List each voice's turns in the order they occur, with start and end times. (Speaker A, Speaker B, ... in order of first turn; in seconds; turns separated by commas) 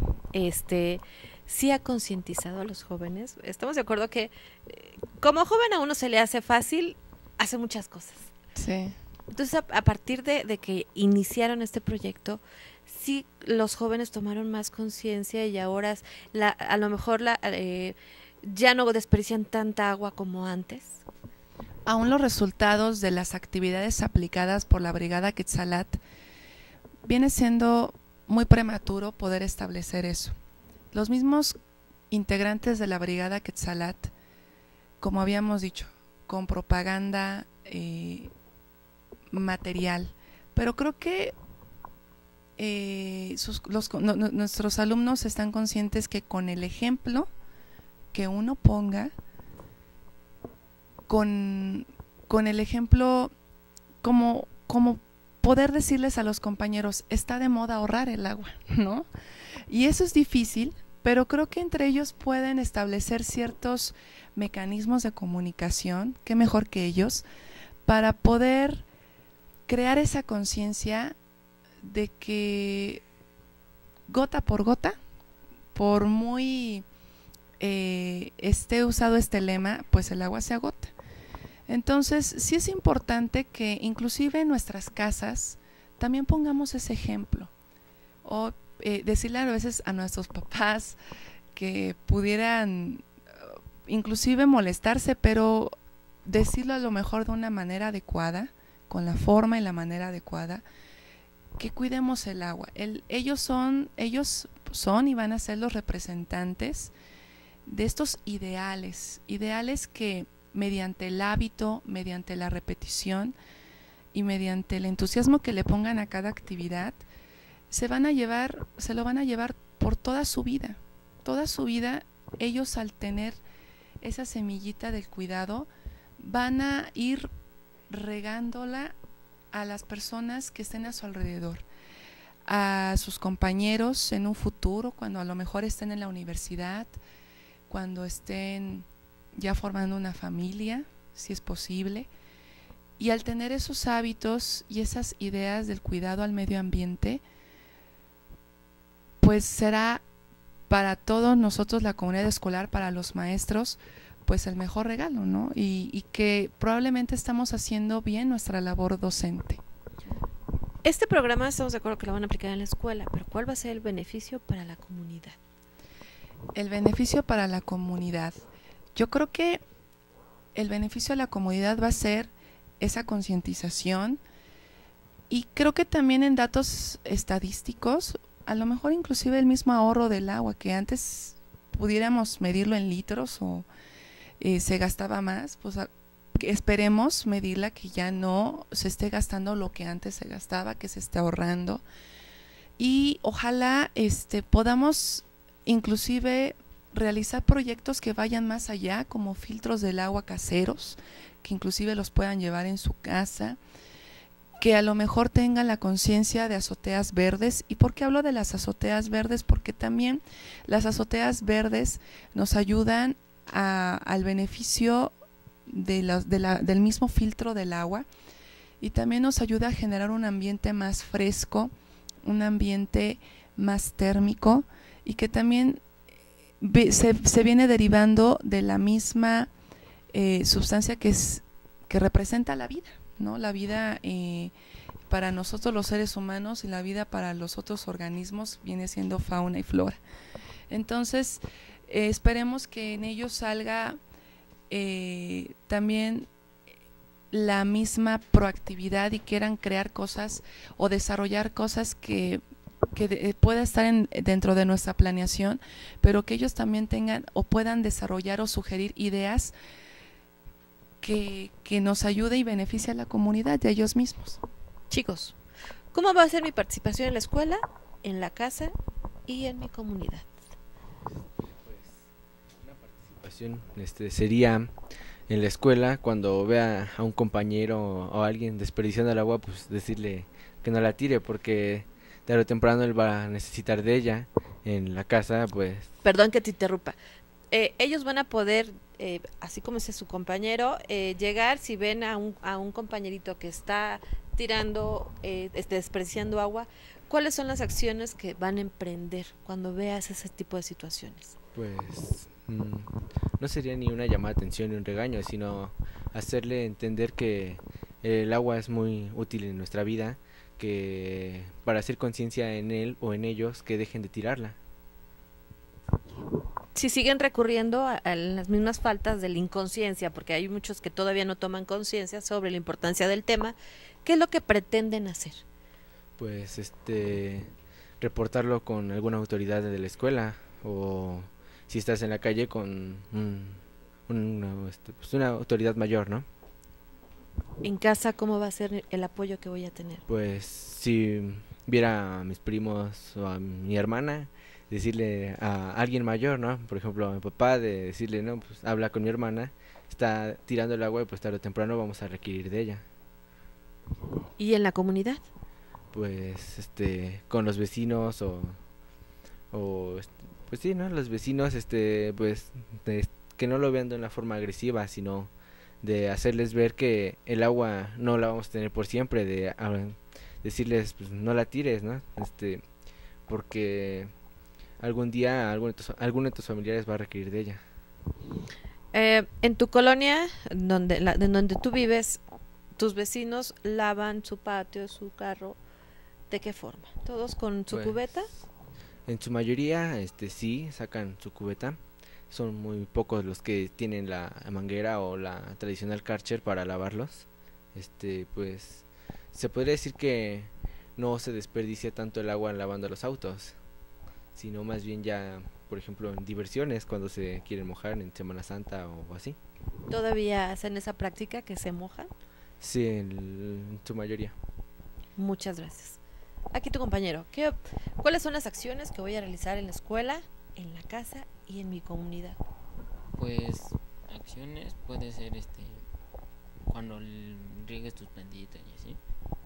Speaker A: 0.3-8.3, Speaker B: 8.5-9.0, Speaker A: 9.3-21.0, Speaker B: 21.9-26.0, Speaker B: 27.0-30.4, Speaker B: 30.9-31.6, Speaker B: 32.1-34.1, Speaker B: 35.0-38.3, Speaker B: 39.3-41.4, Speaker B: 42.6-47.3, Speaker B: 48.1-49.1, Speaker B: 51.1-53.3, Speaker B: 54.0-59.1, Speaker B: 59.7-67.2, Speaker B: 67.8-68.8, Speaker B: 69.7-71.1, Speaker B: 71.8-73.0, Speaker B: 74.1-75.0, Speaker B: 75.7-76.9, Speaker B: 77.6-80.9, Speaker B: 81.7-87.5, Speaker B: 88.2-91.0, Speaker B: 91.5-95.7, Speaker B: 96.2-100.6, Speaker B: 101.6-106.9, Speaker B: 107.7-113.3, Speaker B: 114.1-117.0, Speaker B: 117.7-123.4, Speaker B: 124.0-127.3, Speaker B: 127.9-128.9, Speaker B: 129.5-131.6, Speaker B: 132.4-136.9, Speaker B: 137.7-142.1, Speaker B: 143.0-147.2, Speaker B: 149.2-150.0, Speaker B: 150.7-159.6, Speaker A: 160.8-165.4, Speaker B: 166.5-168.4, Speaker B: 168.9-169.6, Speaker B: 170.5-174.2, Speaker B: 175.3-183.7, Speaker B: 184.4-191.8, Speaker B: 192.8-203.6, Speaker B: 204.6-215.1, Speaker B: 215.7-218.1, Speaker B: 218.8-221.7, Speaker B: 222.2-225.8, Speaker B: 226.6-229.5, Speaker B: 230.1-234.5, Speaker B: 235.1-240.0, Speaker B: 240.7-244.0, Speaker B: 244.7-246.3, Speaker B: 247.3-252.4, Speaker B: 252.9-259.5, Speaker B: 261.0-264.4, Speaker A: 264.9-265.4, Speaker A: 265.9-268.7, Speaker A: 269.3-270.3, Speaker C: 271.1-272.0, Speaker C: 272.6-274.7, Speaker C: 275.3-285.9, Speaker A: 286.0-286.9, Speaker A: 287.5-301.4, Speaker C: 301.5-314.6, Speaker A: 316.7-325.4, Speaker C: 326.2-336.2, Speaker A: 337.6-340.0, Speaker C: 340.1-352.8, Speaker A: 354.4-355.2, Speaker C: 355.9-358.6, Speaker C: 359.5-365.3, Speaker C: 365.8-372.6, Speaker C: 373.3-374.1, Speaker C: 374.8-377.6, Speaker A: 378.9-382.2, Speaker A: 382.8-385.6, Speaker A: 386.3-388.3, Speaker C: 387.7-388.0, Speaker C: 389.1-391.8, Speaker C: 392.3-403.5, Speaker C: 404.4-409.4, Speaker A: 409.9-412.1, Speaker C: 412.6-414.3, Speaker A: 415.2-416.0, Speaker A: 416.5-422.4, Speaker D: 423.1-425.9, Speaker D: 426.6-429.0